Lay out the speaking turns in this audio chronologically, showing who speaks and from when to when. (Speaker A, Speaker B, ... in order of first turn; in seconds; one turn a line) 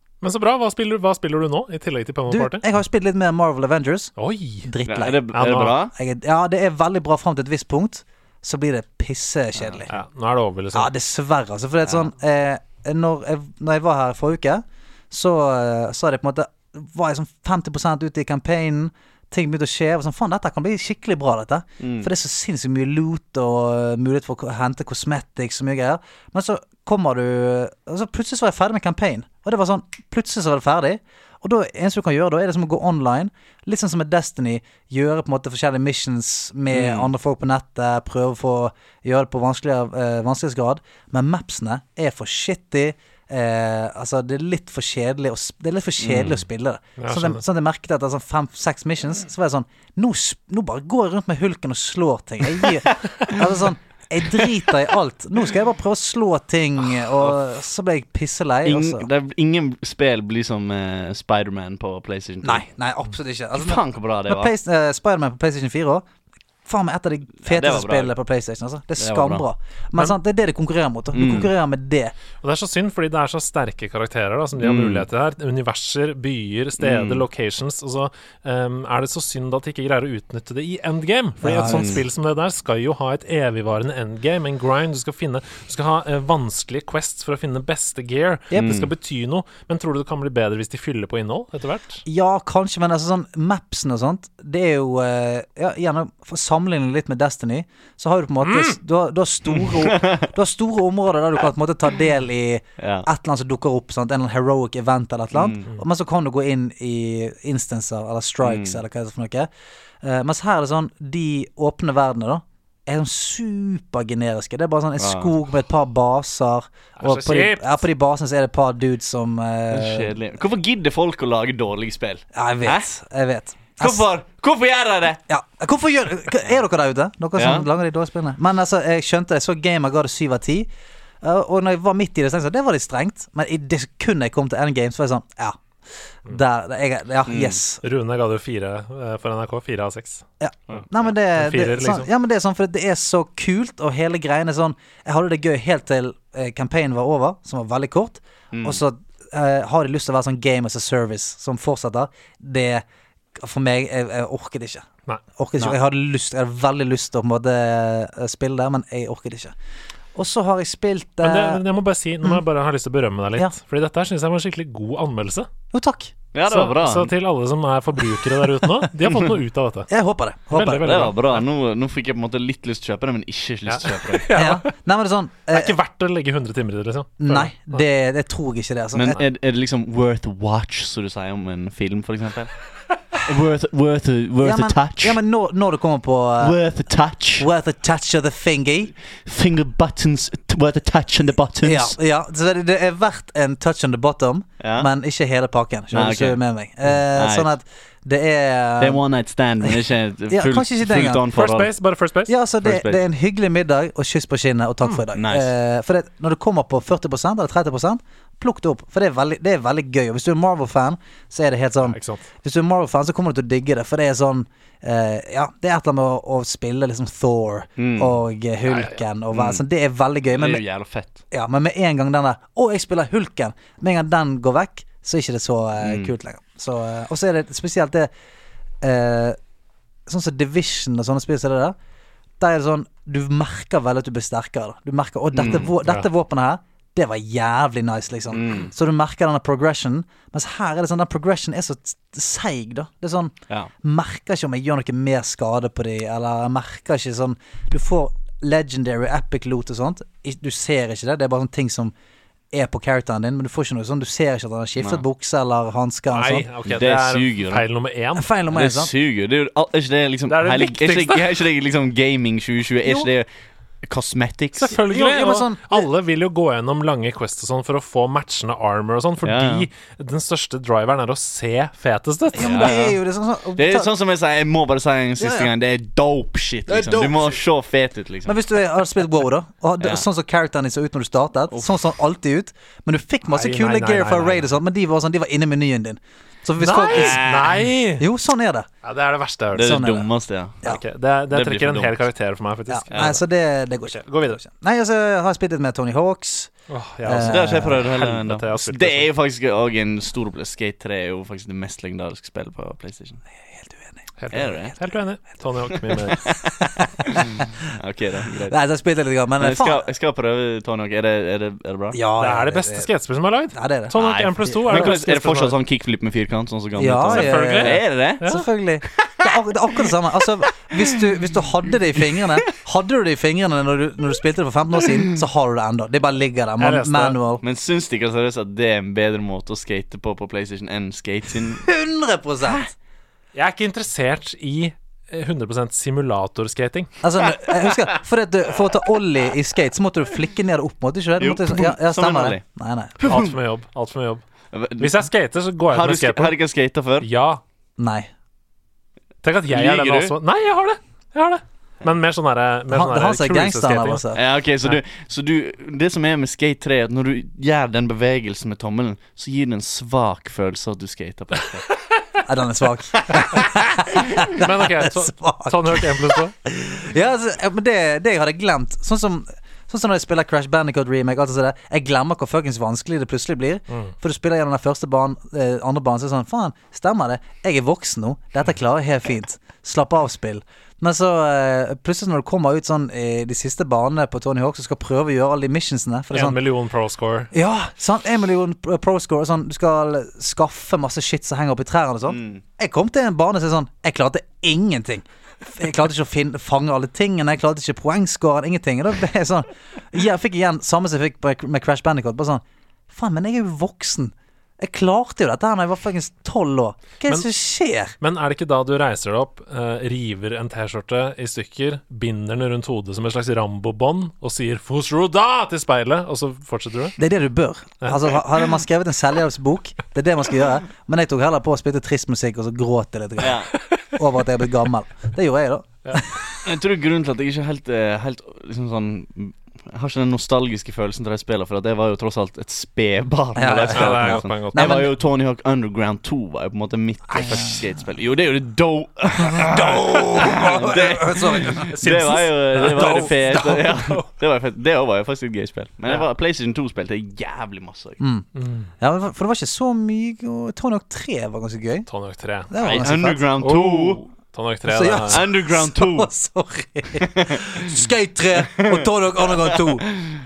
Speaker A: 0.2-2.6
Speaker B: 2.3-4.1
Speaker A: 4.2-4.7
Speaker B: 4.6-5.2
Speaker C: 4.9-5.9
Speaker A: 5.3-5.8
Speaker B: 5.9-9.9
Speaker A: 9.9-10.9
Speaker B: 10.7-59.1
Speaker C: 21.8-22.1
Speaker C: 36.7-37.1
Speaker C: 46.0-46.4
Speaker A: 47.0-47.4
Speaker C: 58.6-62.6
Speaker B: 62.4-66.0
Speaker C: 63.5-64.5
Speaker B: 66.6-72.1
Speaker C: 67.4-68.1
Speaker C: 69.0-69.4
Speaker C: 71.1-71.5
Speaker A: 72.4-92.0
Speaker C: 74.6-75.0
Speaker C: 76.8-77.2
Speaker B: 81.4-81.9
Speaker C: 81.6-82.0
Speaker B: 88.5-88.8
Speaker C: 88.5-88.9
Speaker B: 92.0-109.5
Speaker A: 98.4-98.8
Speaker C: 99.6-100.3
Speaker C: 102.8-103.1
Speaker C: 105.3-105.7
Speaker C: 108.4-108.8
Speaker B: 110.0-120.1
Speaker C: 115.0-115.3
Speaker A: 117.0-117.8
Speaker C: 119.7-122.9
Speaker B: 122.3-124.0
Speaker C: 123.8-125.2
Speaker B: 125.3-130.7
Speaker C: 127.3-127.7
Speaker B: 131.2-135.6
Speaker B: 136.2-137.8
Speaker C: 137.3-137.6
Speaker A: 137.8-140.2
Speaker B: 140.4-159.5
Speaker A: 141.3-142.1
Speaker C: 148.5-148.8
Speaker B: 160.1-161.6
Speaker A: 161.2-165.5
Speaker B: 165.7-166.1
Speaker C: 166.3-167.1
Speaker A: 166.5-169.9
Speaker C: 169.1-169.3
Speaker B: 169.9-171.1
Speaker A: 170.5-171.4
Speaker C: 170.8-174.3
Speaker A: 173.7-174.7
Speaker B: 174.3-175.7
Speaker A: 175.5-177.8
Speaker B: 177.2-179.2
Speaker C: 178.9-182.6
Speaker C: 183.2-185.2
Speaker B: 184.4-186.6
Speaker C: 186.4-187.5
Speaker B: 187.4-188.9
Speaker C: 189.2-192.0
Speaker B: 191.6-199.0
Speaker C: 194.6-194.9
Speaker C: 195.9-196.4
Speaker C: 196.9-197.5
Speaker C: 198.8-201.7
Speaker B: 200.3-201.2
Speaker A: 201.3-202.3
Speaker B: 202.3-220.6
Speaker C: 202.6-203.0
Speaker C: 205.1-205.5
Speaker A: 211.8-212.2
Speaker C: 217.8-218.2
Speaker A: 218.7-218.9
Speaker C: 219.3-219.6
Speaker C: 220.3-221.2
Speaker B: 221.3-228.1
Speaker C: 225.8-226.1
Speaker B: 228.8-229.4
Speaker B: 230.1-231.8
Speaker B: 232.4-251.9
Speaker C: 235.3-235.7
Speaker A: 235.8-236.1
Speaker C: 238.3-238.7
Speaker B: 252.5-256.5
Speaker A: 256.1-258.3
Speaker C: 256.7-257.6
Speaker B: 258.1-258.9
Speaker C: 258.5-263.3
Speaker A: 260.3-261.3
Speaker C: 263.8-264.8
Speaker A: 264.5-272.7
Speaker B: 264.9-265.9
Speaker C: 269.2-269.7
Speaker B: 272.3-273.9
Speaker C: 272.4-273.0
Speaker C: 273.6-278.4
Speaker B: 275.2-275.5
Speaker B: 276.7-277.4
Speaker B: 278.2-287.2
Speaker C: 281.5-281.8
Speaker A: 283.3-284.5
Speaker A: 286.6-288.0
Speaker C: 286.8-287.6
Speaker B: 288.0-288.7
Speaker A: 288.8-289.8
Speaker C: 289.5-290.6
Speaker B: 289.6-290.1
Speaker A: 290.6-293.2
Speaker C: 291.3-292.1
Speaker B: 292.7-296.5
Speaker A: 293.9-294.4
Speaker A: 296.7-299.1
Speaker B: 297.0-297.9
Speaker C: 297.2-303.2
Speaker B: 303.5-304.0
Speaker A: 304.2-306.2
Speaker C: 304.3-304.8
Speaker C: 305.9-308.6
Speaker B: 306.8-307.3
Speaker B: 308.5-309.8
Speaker C: 309.4-312.0
Speaker B: 311.9-312.9
Speaker A: 312.2-315.6
Speaker B: 313.5-314.9
Speaker C: 314.0-318.2
Speaker B: 316.8-327.4
Speaker A: 317.1-318.4
Speaker C: 322.0-322.4
Speaker A: 326.6-327.2
Speaker C: 327.4-331.7
Speaker B: 331.6-332.6
Speaker C: 332.4-332.7
Speaker A: 333.4-336.9
Speaker B: 337.0-343.0
Speaker C: 341.2-342.4
Speaker C: 343.0-343.4
Speaker A: 343.0-344.2
Speaker C: 344.5-345.0
Speaker A: 344.8-346.4
Speaker C: 345.7-347.1
Speaker A: 347.0-347.4
Speaker B: 347.8-348.1
Speaker A: 349.2-354.0
Speaker C: 349.5-350.1
Speaker B: 352.7-354.2
Speaker C: 354.1-361.7
Speaker B: 362.2-386.4
Speaker A: 364.3-366.3
Speaker A: 386.1-387.3
Speaker B: 387.3-407.9
Speaker C: 392.1-392.4
Speaker A: 408.0-416.9
Speaker B: 417.0-426.4
Speaker C: 423.2-423.5
Speaker C: 426.4-448.0
Speaker B: 433.4-434.9
Speaker A: 433.7-434.7
Speaker B: 437.1-437.6
Speaker B: 439.2-443.1
Speaker A: 441.6-444.1
Speaker B: 448.0-451.9
Speaker A: 448.3-448.7
Speaker A: 451.9-452.5
Speaker B: 452.5-453.3
Speaker C: 452.6-454.0
Speaker A: 453.4-455.2
Speaker B: 454.6-459.9
Speaker C: 455.1-456.1
Speaker C: 457.1-457.5
Speaker C: 458.6-459.6